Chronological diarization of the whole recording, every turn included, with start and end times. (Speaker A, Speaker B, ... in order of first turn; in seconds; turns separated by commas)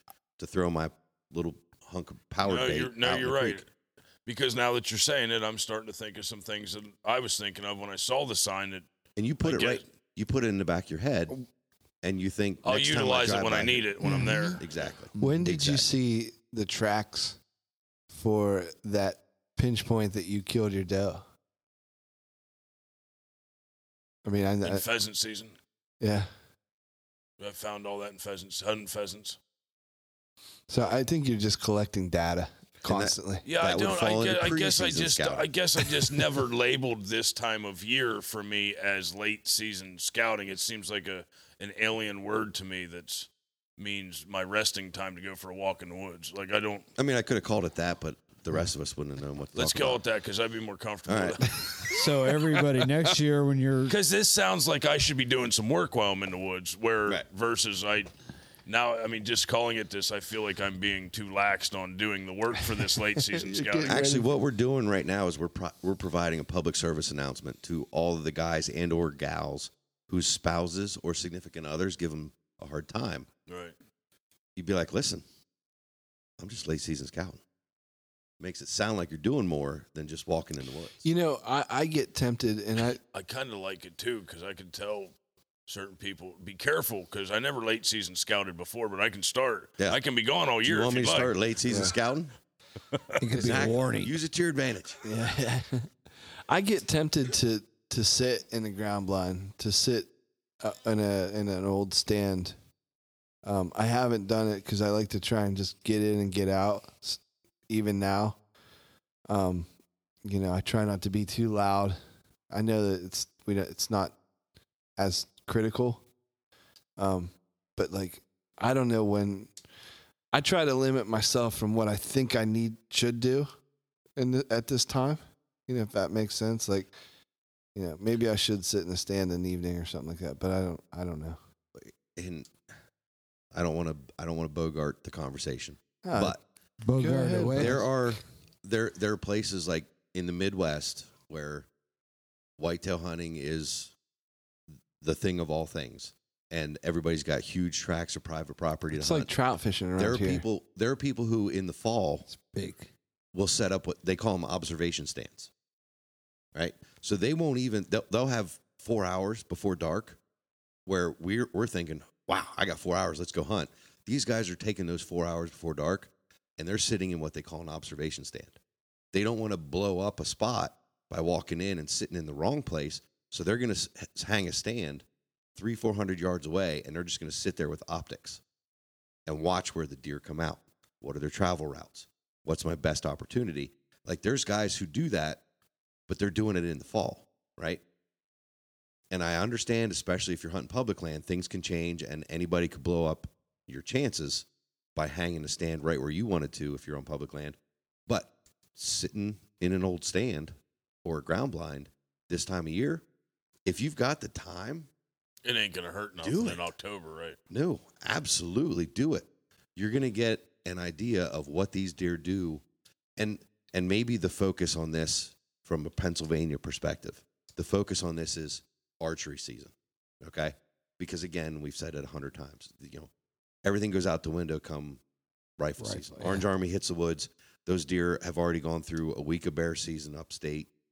Speaker A: 0.4-3.6, Speaker B: 2.4-3.7, Speaker B: 4.2-8.8, Speaker A: 9.2-11.3, Speaker B: 9.4-9.8, Speaker A: 12.0-13.9, Speaker B: 12.6-14.7, Speaker C: 14.1-14.6, Speaker A: 14.6-15.9, Speaker C: 15.2-17.4, Speaker C: 18.1-21.2, Speaker C: 24.2-24.8, Speaker B: 24.6-25.5, Speaker C: 26.0-26.3, Speaker B: 27.4-29.4, Speaker C: 30.7-33.5, Speaker A: 32.9-35.5, Speaker B: 33.4-46.9, Speaker A: 47.0-50.0, Speaker B: 49.5-51.4, Speaker A: 51.1-51.9, Speaker D: 51.9-54.0, Speaker B: 53.9-58.1, Speaker B: 58.6-64.0, Speaker C: 63.3-64.3, Speaker A: 63.9-73.3, Speaker B: 73.5-73.7, Speaker A: 74.5-75.2, Speaker A: 76.4-77.4, Speaker A: 78.4-81.0, Speaker C: 81.0-83.0, Speaker B: 83.1-85.1, Speaker B: 85.7-91.3, Speaker A: 90.6-92.3, Speaker C: 91.6-91.9, Speaker D: 93.2-94.1, Speaker C: 93.3-93.6, Speaker A: 93.4-95.0, Speaker C: 95.0-95.9, Speaker C: 96.5-102.5, Speaker C: 103.4-108.4, Speaker C: 109.3-109.7, Speaker C: 110.2-112.0, Speaker C: 112.5-114.2, Speaker C: 115.0-116.0, Speaker C: 117.0-119.5, Speaker C: 120.3-123.5, Speaker C: 124.2-126.9, Speaker C: 127.7-131.4, Speaker A: 131.8-132.5, Speaker A: 133.5-136.4, Speaker C: 136.0-136.3, Speaker D: 136.8-137.8, Speaker C: 137.0-138.0, Speaker A: 137.5-141.7, Speaker A: 142.6-143.9, Speaker A: 145.0-149.3, Speaker C: 148.9-150.4, Speaker A: 150.0-152.2, Speaker D: 152.3-152.9, Speaker A: 153.3-155.5, Speaker A: 156.5-160.2, Speaker A: 160.8-168.6, Speaker A: 169.1-175.0, Speaker A: 175.6-178.4, Speaker A: 179.2-185.4, Speaker A: 186.1-187.8, Speaker A: 189.1-203.0, Speaker A: 203.7-204.9, Speaker B: 205.4-207.4, Speaker A: 206.2-206.6, Speaker A: 207.5-212.6, Speaker A: 213.2-223.1, Speaker A: 223.6-225.0, Speaker A: 225.6-230.7, Speaker D: 225.8-226.4